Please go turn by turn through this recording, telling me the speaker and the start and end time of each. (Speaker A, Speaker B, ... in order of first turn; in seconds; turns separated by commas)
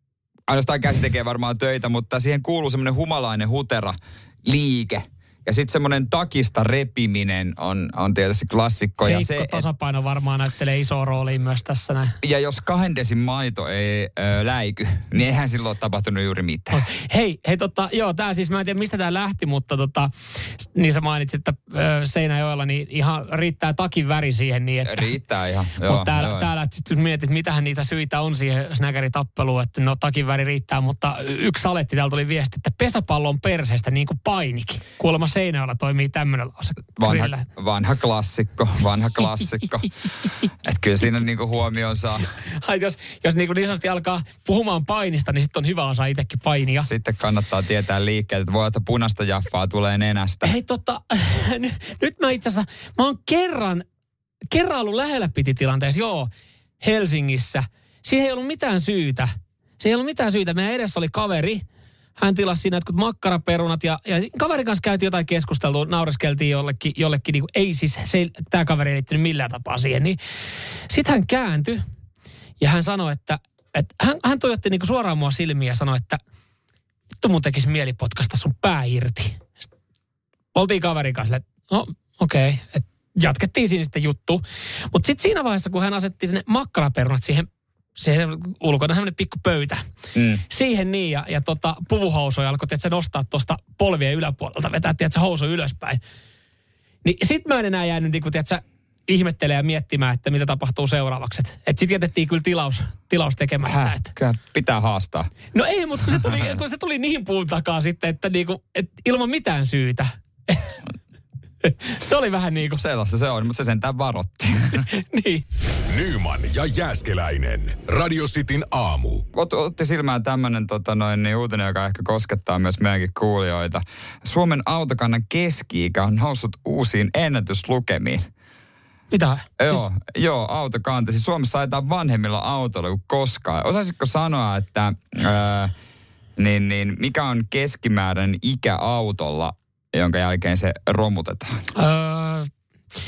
Speaker A: 0.5-9.6, Speaker B: 9.0-12.1, Speaker A: 12.2-16.8, Speaker B: 16.7-25.1, Speaker A: 24.8-26.5, Speaker B: 25.8-37.4, Speaker A: 37.0-39.9, Speaker A: 40.6-42.3, Speaker B: 42.6-46.9, Speaker A: 46.8-50.5, Speaker B: 50.4-53.8, Speaker B: 54.5-61.6, Speaker B: 62.2-70.2, Speaker B: 70.9-71.8, Speaker B: 72.6-76.2, Speaker B: 77.2-79.5, Speaker B: 80.5-89.8, Speaker A: 90.1-90.4, Speaker B: 90.5-96.0, Speaker B: 97.0-104.1, Speaker A: 103.6-105.3, Speaker B: 105.5-110.8, Speaker B: 111.6-112.8, Speaker A: 112.8-114.8, Speaker B: 114.7-115.4, Speaker C: 115.9-119.2, Speaker A: 119.3-128.2, Speaker B: 129.1-129.8, Speaker A: 129.6-135.7, Speaker A: 136.4-141.6, Speaker B: 141.7-142.5